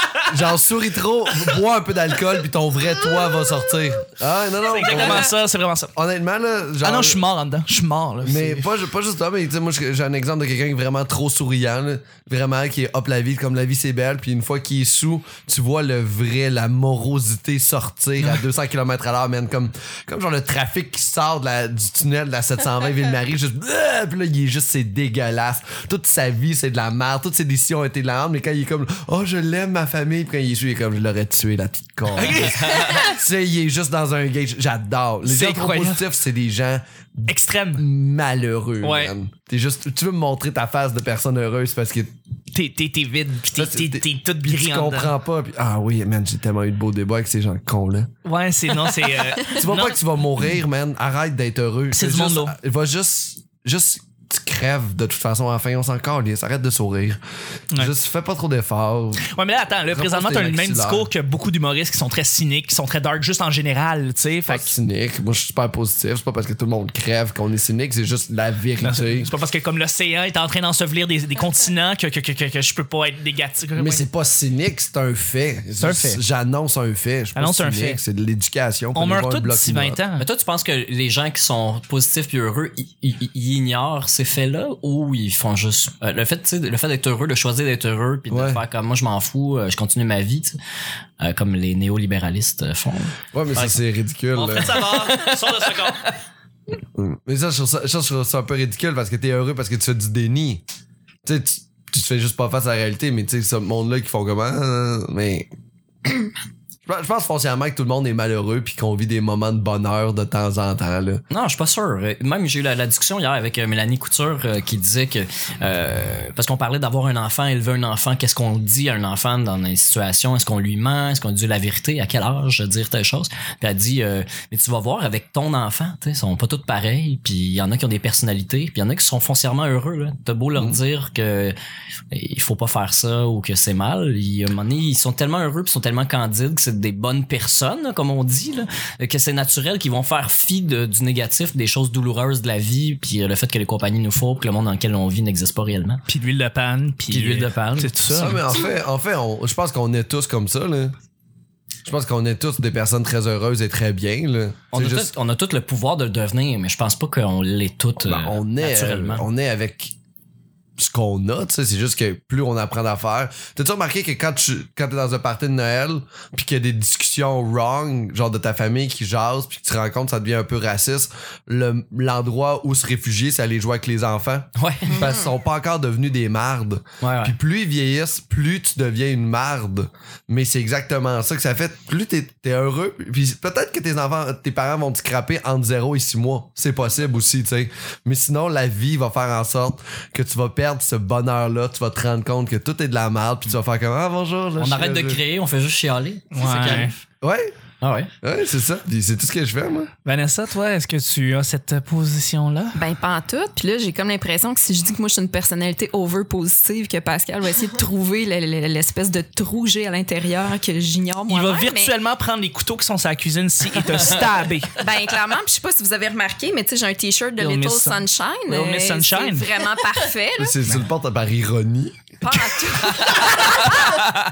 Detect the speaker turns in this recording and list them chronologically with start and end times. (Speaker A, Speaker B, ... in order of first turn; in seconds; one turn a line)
Speaker A: 0.2-5.3
Speaker B: 4.7-5.9
Speaker A: 6.0-7.2
Speaker B: 6.8-8.7
Speaker A: 8.2-42.1
Speaker B: 32.2-33.1
Speaker C: 32.3-33.0
Speaker B: 35.2-36.0
Speaker B: 37.3-37.8
Speaker B: 38.8-39.1
Speaker B: 42.5-45.1
Speaker A: 43.5-48.1
Speaker B: 48.2-50.0
Speaker A: 49.5-57.2
Speaker B: 51.9-52.5
Speaker A: 57.7-59.3
Speaker B: 59.2-64.7
Speaker A: 59.9-61.1
Speaker A: 64.5-69.3
Speaker B: 68.8-74.0
Speaker A: 73.8-80.0
Speaker B: 75.8-76.2
Speaker B: 77.3-78.0
Speaker B: 79.0-80.3
Speaker C: 80.2-90.6
Speaker A: 88.3-88.6
Speaker C: 91.2-93.8
Speaker A: 93.3-94.9
Speaker B: 94.3-96.1
Speaker C: 94.6-95.9
Speaker A: 97.0-100.6
Speaker A: 101.2-105.5
Speaker A: 106.9-111.2
Speaker C: 111.3-131.6
Speaker C: 132.1-146.0
Speaker B: 146.1-148.5
Speaker C: 147.1-148.4
Speaker A: 148.1-150.9
Speaker A: 151.8-155.1
Speaker C: 154.7-159.3
Speaker A: 158.0-159.9
Speaker A: 160.8-195.2
Speaker C: 174.6-175.0
Speaker C: 177.0-177.3
Speaker C: 194.6-197.0
Speaker B: 196.3-196.9
Speaker A: 197.2-197.5
Speaker C: 197.8-198.1
Speaker A: 198.2-199.9
Speaker B: 200.1-202.8
Speaker D: 202.8-212.0
Speaker B: 211.3-214.9
Speaker D: 214.8-220.6
Speaker B: 217.4-219.5
Speaker A: 220.4-222.4
Speaker D: 222.2-224.1
Speaker B: 222.9-224.1